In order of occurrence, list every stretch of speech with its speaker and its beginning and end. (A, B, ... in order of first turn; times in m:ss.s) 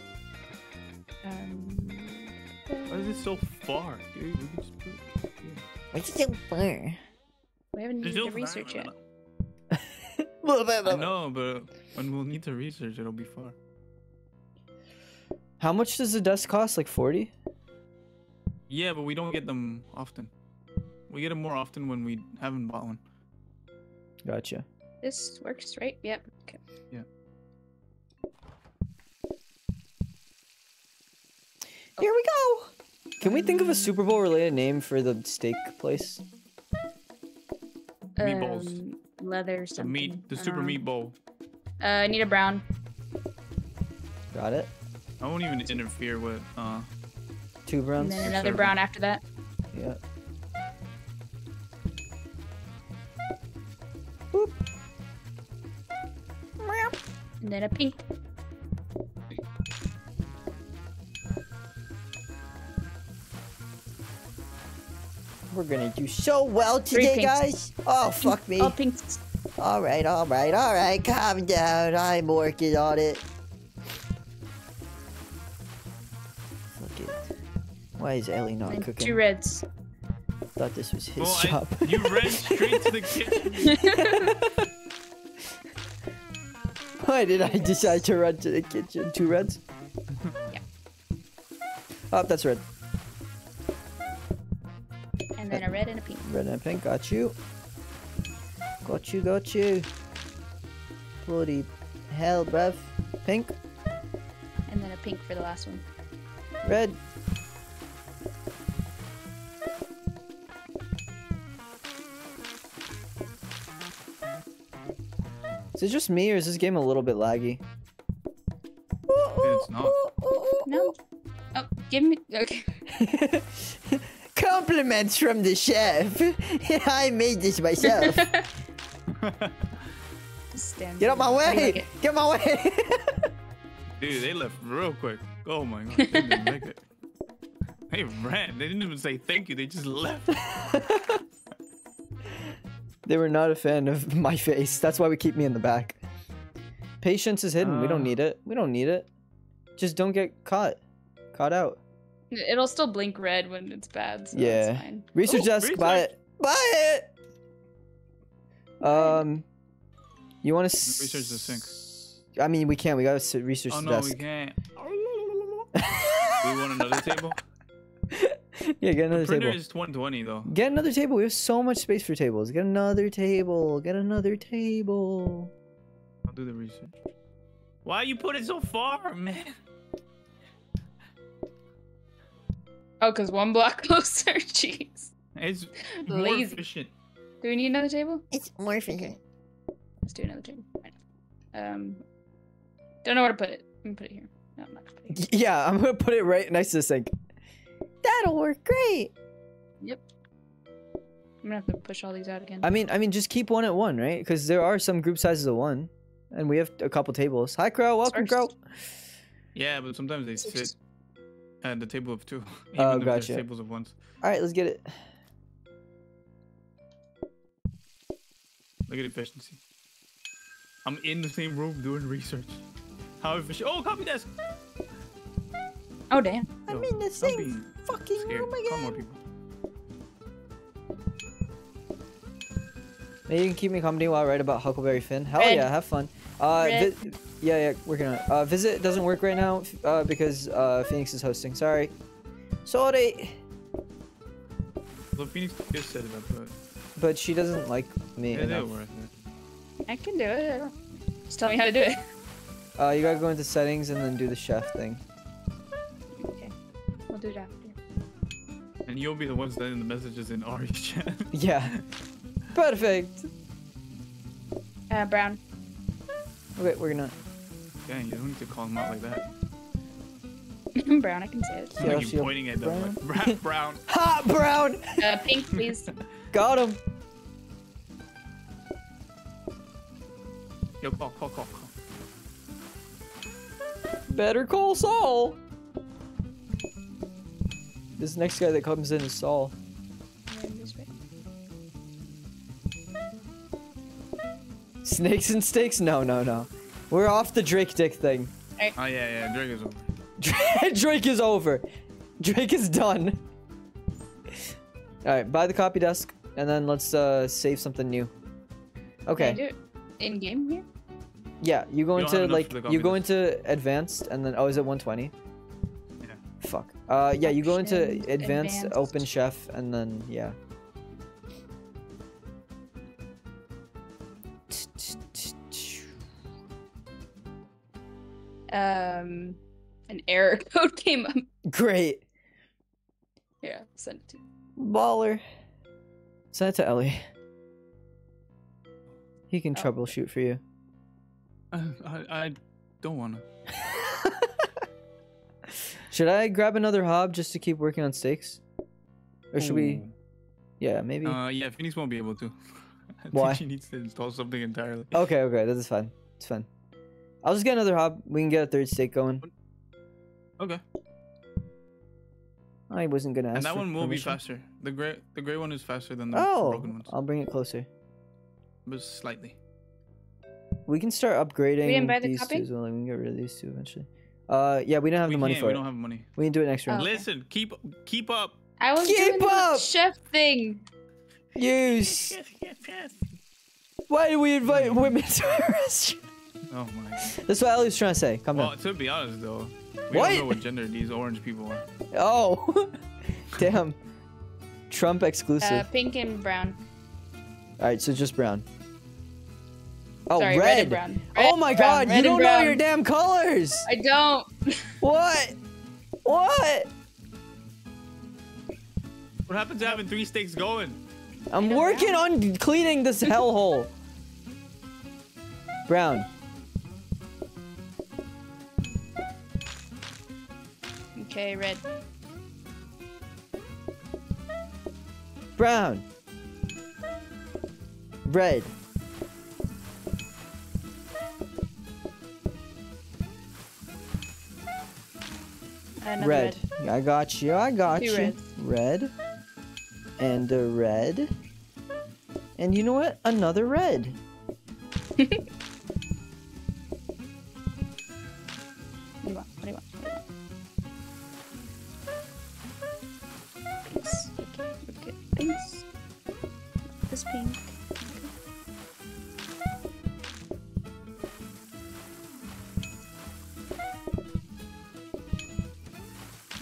0:01.2-0:03.3 A
0:02.9-0:05.6 B
0:05.9-0:07.0 C
0:07.7-0:08.9 A
0:08.0-0:09.0 B
0:09.7-0:11.1 C
0:10.8-0:13.6 B
0:15.6-0:17.3 C
0:18.7-0:20.3 B
0:21.1-0:23.0 B
0:24.2-0:24.6 C
0:25.0-0:26.6 A
0:32.0-0:36.2 C
0:33.2-0:34.0 A
0:38.2-0:40.8 A
0:38.2-0:38.8 B
0:39.8-0:41.2 B
0:41.8-0:42.6 A
0:44.3-0:44.7 C
0:45.2-0:46.9 B
0:47.7-0:48.6 C
0:48.0-0:49.2 A
0:48.2-0:48.7 B
0:49.7-0:50.0 C
0:54.3-0:54.6 C
0:56.6-0:57.0 C
0:57.4-0:58.0 A
1:05.5-1:08.8 C
1:06.9-1:07.5 A
1:08.2-1:09.2 A
1:09.6-1:13.2 C
1:16.7-1:17.3 C
1:18.0-1:19.2 C
1:18.7-1:19.6 A
1:20.6-1:24.7 C
1:21.2-1:24.0 B
1:23.6-1:24.3 A
1:27.0-1:29.6 C
1:27.4-1:28.0 A
1:32.1-1:32.6 C
1:35.4-1:36.3 A
1:36.2-1:37.4 C
1:38.8-1:39.9 C
1:41.2-1:43.6 C
1:44.7-1:45.9 A
1:46.6-1:47.0 C
1:55.8-1:57.6 C
1:59.1-2:00.9 C
1:59.4-2:00.0 B
2:00.7-2:01.0 A
2:01.6-2:02.8 A
2:02.9-2:08.3 C
2:07.8-2:08.5 A
2:09.1-2:09.7 B
2:10.5-2:11.9 A
2:11.0-2:13.3 C
2:14.0-2:16.8 B
2:16.0-2:16.5 A
2:17.9-2:20.8 B
2:20.4-2:21.2 C
2:23.1-2:26.0 C
2:27.0-2:29.1 C
2:27.6-2:28.2 B
2:29.8-2:30.8 C
2:31.3-2:31.8 C
2:32.3-2:35.1 A
2:34.3-2:37.1 C
2:35.2-2:36.1 B
2:38.8-2:39.4 C
2:38.8-2:39.2 A
2:40.4-2:44.2 C
2:40.8-2:41.8 B
2:43.7-2:45.7 B
2:45.8-2:47.1 C
2:46.3-2:47.4 B
2:48.1-2:49.6 C
2:49.1-2:50.5 B
2:50.5-2:55.5 C
2:56.3-2:56.9 B
2:57.8-2:59.6 B
3:03.0-3:05.1 A
3:05.4-3:06.9 B
3:05.9-3:06.6 A
3:07.4-3:08.2 A
3:08.3-3:09.2 C
3:10.1-3:11.0 A
3:11.5-3:12.0 A
3:13.0-3:15.2 A
3:15.1-3:17.1 C
3:18.0-3:19.1 C
3:21.4-3:22.7 A
3:22.6-3:28.6 C
3:28.1-3:28.5 A
3:29.6-3:30.7 B
3:30.4-3:30.7 A
3:31.6-3:34.0 B
3:32.8-3:33.4 C
3:34.2-3:34.9 C
3:38.9-3:39.6 B
3:40.8-3:42.6 B
3:43.2-3:44.3 B
3:46.1-3:46.5 A
3:46.7-3:49.0 C
3:46.7-3:49.2 B
3:53.3-4:01.9 C
3:55.4-3:55.7 A
3:56.6-3:57.0 A
4:02.6-4:03.4 C
4:05.2-4:06.5 B
4:07.0-4:08.7 C
4:08.3-4:09.1 B
4:09.8-4:10.8 A
4:11.3-4:12.0 A
4:12.8-4:15.0 C
4:16.2-4:16.5 A
4:17.1-4:17.8 A
4:18.9-4:21.3 B
4:21.3-4:21.8 C
4:22.5-4:23.3 C
4:24.9-4:25.4 A
4:26.6-4:27.2 C
4:27.9-4:29.3 B
4:30.8-4:31.8 A
4:31.8-4:33.8 B
4:31.8-4:35.1 C
4:35.0-4:35.9 A
4:36.3-4:36.8 C
4:40.8-4:41.7 B
4:44.1-4:45.4 C
4:48.0-4:49.5 C
4:50.3-4:50.9 A
4:54.8-4:58.3 C
4:58.8-4:59.9 B
5:00.2-5:01.6 C
5:02.2-5:03.2 C
5:05.0-5:08.1 C
5:09.1-5:09.4 C
5:09.2-5:10.6 A
5:11.4-5:15.1 C
5:12.0-5:13.1 B
5:16.4-5:20.4 C
5:17.2-5:19.1 A
5:24.5-5:25.9 C
5:28.5-5:31.3 A
5:31.5-5:32.0 C
5:33.4-5:34.2 A
5:34.6-5:35.2 C
5:36.3-5:37.1 C
5:39.3-5:40.4 C
5:41.5-5:43.2 B
5:43.5-5:44.5 C
5:45.9-5:48.4 C
5:49.3-5:49.8 C
5:49.4-5:49.9 B
5:50.6-5:51.2 C
5:51.0-5:55.0 B
5:53.1-5:53.4 C
5:54.9-5:56.5 C
5:57.2-5:59.2 C
6:02.7-6:04.2 C
6:03.3-6:06.9 B
6:06.1-6:07.7 C
6:08.7-6:09.4 B
6:10.7-6:15.6 C
6:11.6-6:12.5 A
6:15.1-6:16.1 B
6:16.2-6:16.9 C
6:16.7-6:17.1 A
6:16.7-6:18.4 B
6:18.6-6:20.6 A
6:18.8-6:19.7 C
6:21.4-6:22.2 C
6:21.7-6:23.0 B
6:23.9-6:26.0 C
6:24.4-6:24.9 B
6:26.5-6:27.1 B
6:27.1-6:28.5 C
6:28.3-6:31.6 B
6:29.9-6:30.4 C
6:31.9-6:33.8 C
6:34.7-6:35.7 C
6:35.4-6:36.6 A
6:37.6-6:38.4 C
6:40.1-6:43.7 C
6:40.2-6:42.6 A
6:43.7-6:44.7 A
6:44.8-6:45.4 C
6:46.0-6:46.7 C
6:49.3-6:50.8 B
6:51.3-6:53.7 C
6:51.4-6:52.1 A
6:55.7-6:56.1 C
7:01.0-7:01.6 A
7:05.4-7:05.8 C
7:08.1-7:08.5 C
7:15.8-7:16.4 A
7:16.0-7:18.9 C
7:17.8-7:18.3 A
7:20.0-7:21.1 C
7:22.4-7:24.0 C
7:25.0-7:25.2 A
7:29.0-7:30.0 A
7:33.7-7:35.7 A
7:36.8-7:38.1 A